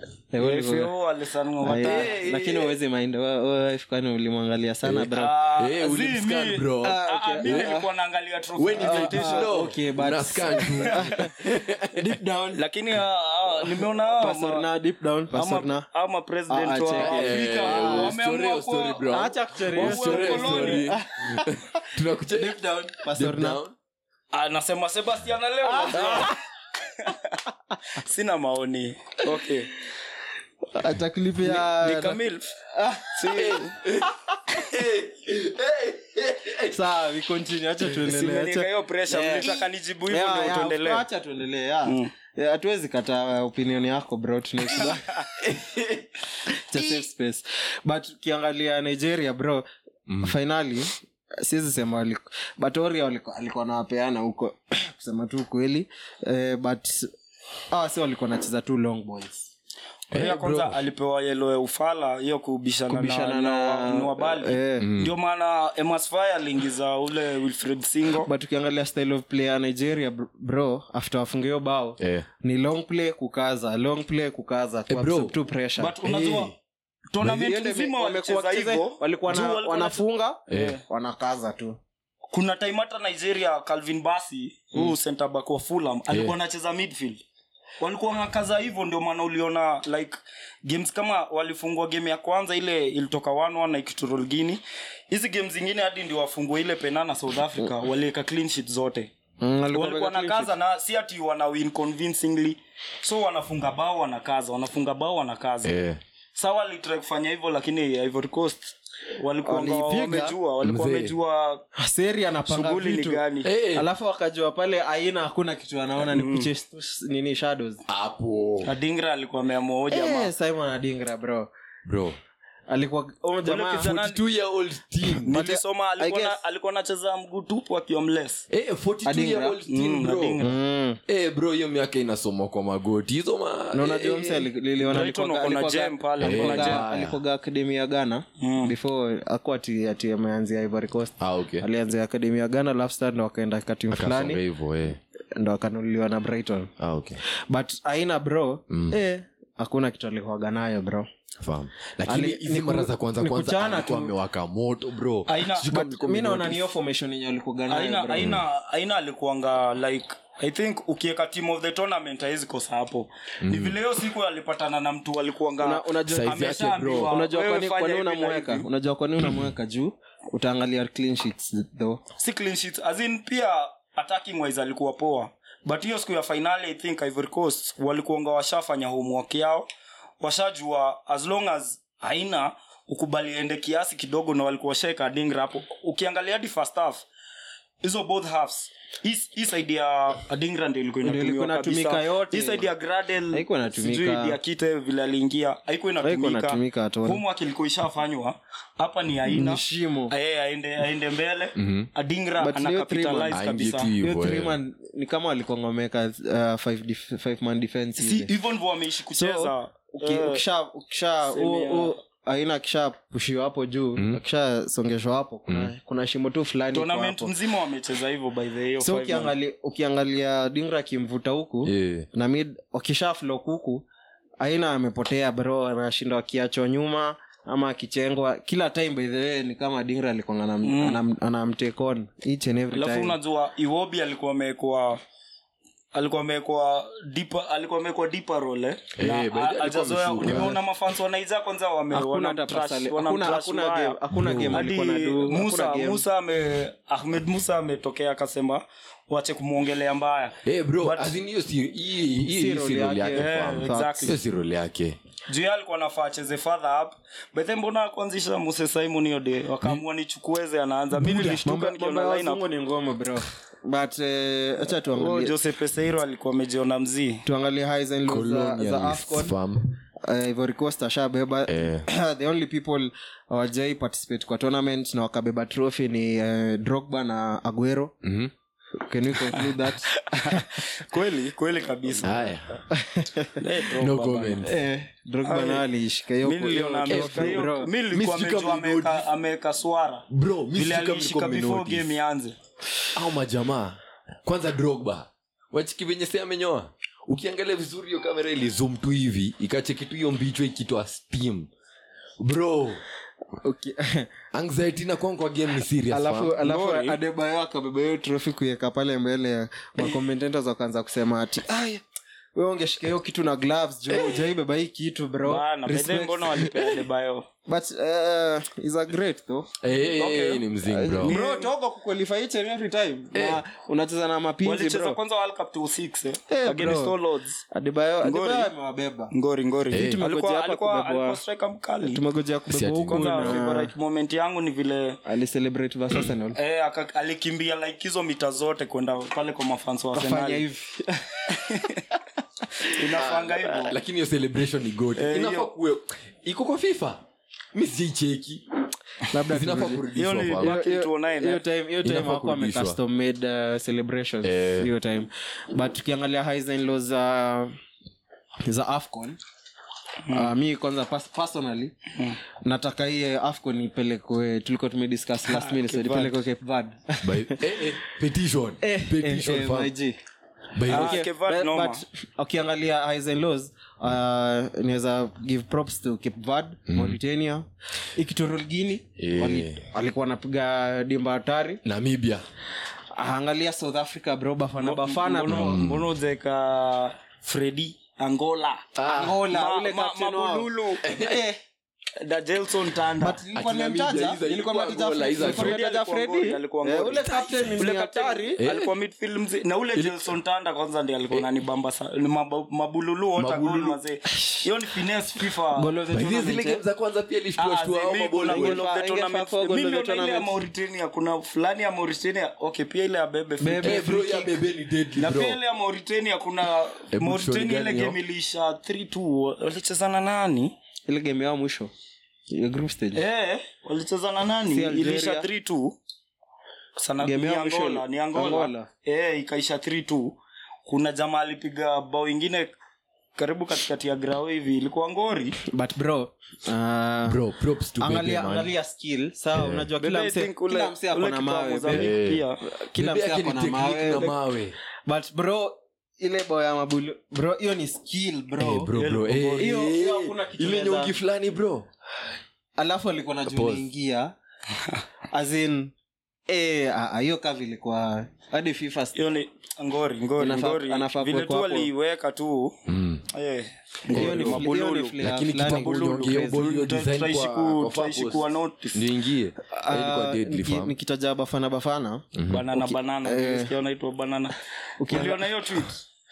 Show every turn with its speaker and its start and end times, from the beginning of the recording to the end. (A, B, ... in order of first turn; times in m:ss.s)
0:00.3-0:00.9 A
0:00.4-0:02.1 B
0:01.6-0:05.4 A
0:01.7-0:02.7 C
0:04.8-0:07.7 C
0:05.1-0:09.5 B
0:06.8-0:07.9 A
0:08.6-0:12.2 C
0:08.8-0:12.6 A
0:10.7-0:11.2 B
0:12.5-0:14.7 B
0:14.0-0:15.8 A
0:15.3-0:19.2 B
0:16.5-0:18.1 A
0:16.9-0:23.7 C
0:19.1-0:21.8 A
0:19.7-0:21.0 B
0:22.3-0:23.6 A
0:24.3-0:29.8 B
0:25.6-0:26.4 A
0:30.7-0:34.1 A
0:31.4-0:32.6 B
0:33.1-0:33.7 B
0:33.3-0:36.8 C
0:36.7-0:45.2 A
0:38.0-0:41.0 B
0:41.8-0:42.1 B
0:45.4-0:46.0 C
0:46.4-0:49.6 A
0:50.1-0:50.4 C
0:50.2-0:57.1 A
0:57.7-0:59.5 A
1:00.1-1:00.8 C
1:00.1-1:08.3 B
1:02.9-1:04.9 A
1:04.8-1:05.1 C
1:08.2-1:16.0 A
1:12.0-1:12.3 C
1:14.9-1:15.3 C
1:15.8-1:16.5 B
1:16.0-1:16.5 C
1:17.1-1:20.8 B
1:17.2-1:21.8 A
1:20.5-1:20.8 C
1:22.3-1:27.2 B
1:27.8-1:39.1 B
1:39.4-1:40.5 A
1:39.7-1:45.8 B
1:45.6-1:46.0 C
1:46.3-1:51.6 B
1:49.4-1:50.4 A
1:50.6-1:51.1 C
1:51.7-1:57.8 A
1:52.5-1:53.5 B
1:53.4-1:53.9 C
1:56.0-1:56.5 B
1:57.9-1:58.7 C
1:58.6-2:00.3 B
1:59.9-2:01.5 A
2:01.8-2:02.2 C
2:02.7-2:03.9 A
2:03.4-2:04.2 B
2:03.8-2:05.4 C
2:05.2-2:06.4 A
2:05.2-2:08.5 B
2:08.5-2:10.4 C
2:09.0-2:09.6 A
2:09.7-2:10.6 B
2:10.4-2:11.0 A
2:11.1-2:14.4 C
2:13.7-2:24.4 A
2:14.8-2:16.8 B
2:16.2-2:17.2 C
2:18.4-2:18.7 B
2:21.2-2:21.7 C
2:23.9-2:25.0 C
2:25.3-2:26.7 A
2:26.8-2:27.2 C
2:27.5-2:31.1 A
2:28.7-2:29.0 C
2:31.4-2:36.6 C
2:32.0-2:34.1 A
2:35.3-2:35.7 B
2:35.7-2:38.4 A
2:37.7-2:48.7 B
2:38.2-2:38.4 C
2:43.4-2:43.8 C
2:45.6-2:46.4 A
2:46.1-2:47.2 C
2:47.0-2:52.0 A
2:52.2-2:59.6 B
3:00.2-3:07.0 B
3:07.8-3:23.9 B
3:11.0-3:12.7 A
3:13.3-3:14.4 A
3:16.0-3:17.2 A
3:19.3-3:20.1 A
3:21.6-3:21.9 C
3:22.4-3:23.4 A
3:23.3-3:24.6 C
3:24.0-3:28.3 A
3:28.0-3:30.4 B
3:29.1-3:37.3 A
3:31.2-3:32.0 B
3:34.0-3:34.2 C
3:36.7-3:39.3 B
3:38.8-3:43.8 A
3:41.6-3:42.1 C
3:44.4-3:53.2 A
3:50.6-3:51.0 B
3:52.7-3:55.0 B
3:55.9-4:04.0 B
3:59.0-4:00.6 C
4:00.3-4:00.5 A
4:01.9-4:06.0 A
4:04.1-4:04.6 C
4:04.5-4:11.2 B
4:10.4-4:15.0 C
4:12.2-4:14.2 A
4:13.1-4:14.2 B
4:15.3-4:22.4 B
4:21.0-4:25.3 A
4:24.9-4:27.2 B
4:27.2-4:29.4 A
4:28.1-4:29.7 C
4:30.0-4:37.9 A
4:31.5-4:31.8 C
4:38.0-4:38.3 C
4:38.8-4:40.6 A
4:39.3-4:42.3 B
4:42.0-4:42.6 C
4:42.7-4:43.4 A
4:43.4-4:44.5 B
4:43.8-4:44.6 C
4:44.4-4:47.7 A
4:45.2-4:45.6 B
4:46.2-4:52.3 B
4:46.9-4:49.0 C
4:50.1-4:51.9 C
4:52.9-5:01.5 C
5:02.2-5:02.8 C
5:03.3-5:04.1 A
5:04.3-5:06.4 C
5:05.9-5:11.8 A
5:06.4-5:07.0 B
5:12.3-5:16.6 A
5:13.9-5:14.2 C
5:15.2-5:17.2 B
5:17.4-5:19.5 A
5:19.6-5:21.2 C
5:19.9-5:20.4 B
5:20.6-5:25.0 A
5:21.0-5:21.5 B
5:23.1-5:23.4 C
5:24.4-5:27.4 B
5:26.3-5:26.9 A
5:27.5-5:29.1 A
5:28.0-5:28.5 B
5:29.1-5:32.0 B
5:29.7-5:30.0 C
5:29.7-5:31.2 A
5:31.8-5:33.7 A
5:32.5-5:33.4 C
5:32.9-5:35.0 B
5:35.0-5:36.4 A
5:36.3-5:40.4 B
5:39.9-5:41.8 A
5:41.3-5:41.8 B
5:42.6-5:43.8 B
5:43.0-5:47.0 C
5:45.0-5:45.5 B
5:47.5-5:48.4 C
5:49.1-5:49.8 A
5:49.3-5:50.6 C
5:49.9-5:51.4 B
5:50.4-5:57.5 A
5:51.8-5:52.8 C
5:54.2-5:54.7 C
5:58.4-5:59.2 A
6:00.0-6:00.3 B
6:00.1-6:01.7 A
6:02.4-6:07.6 A
6:05.3-6:06.2 B
6:07.0-6:09.7 C
6:08.6-6:10.0 A
6:10.5-6:11.0 C
6:10.7-6:21.6 A
6:10.7-6:11.8 B
6:16.7-6:17.0 C
6:19.0-6:19.6 C
6:21.6-6:22.2 C
6:22.9-6:25.6 A
6:24.6-6:28.7 B
6:25.2-6:25.9 C
6:28.7-6:29.2 C
6:28.8-6:31.4 A
6:29.3-6:30.8 B
6:30.8-6:31.2 C
6:32.0-6:33.2 B
6:33.0-6:38.4 A
6:33.3-6:35.6 C
6:35.2-6:45.7 B
6:38.4-6:38.7 C
6:39.7-6:40.2 C
6:43.2-6:43.8 C
6:45.5-6:46.6 A
6:45.9-6:48.6 C
6:47.4-6:53.8 B
6:48.3-6:50.3 A
6:53.4-6:54.4 A
6:53.6-6:55.4 C
6:55.0-7:00.5 B
6:56.9-6:58.0 C
7:00.9-7:01.7 A
7:02.3-7:03.0 A
7:02.9-7:05.8 B
7:04.5-7:05.3 A
7:06.8-7:12.6 B
7:07.0-7:08.7 A
7:13.2-7:15.4 B
7:15.4-7:17.2 A
7:17.1-7:18.5 C
7:17.8-7:21.9 A
7:19.3-7:19.7 C
7:19.8-7:22.4 B
7:21.7-7:24.6 C
7:22.5-7:24.1 A
7:24.9-7:28.7 A
7:28.4-7:31.7 C
7:28.7-7:29.6 B
7:29.4-7:31.0 A
7:32.6-7:34.1 A
7:33.2-7:33.6 C
7:35.1-7:35.7 A
7:36.3-7:39.0 A
7:38.9-7:42.6 B
7:40.2-7:41.7 A
7:42.7-7:43.0 C
7:43.1-7:48.8 B
7:43.9-7:46.4 A
7:43.9-7:44.4 C
7:45.0-7:50.7 C
7:49.5-7:53.5 A
7:52.2-7:52.4 C
7:52.3-7:54.4 B
7:54.8-7:55.6 A
7:54.9-7:55.8 B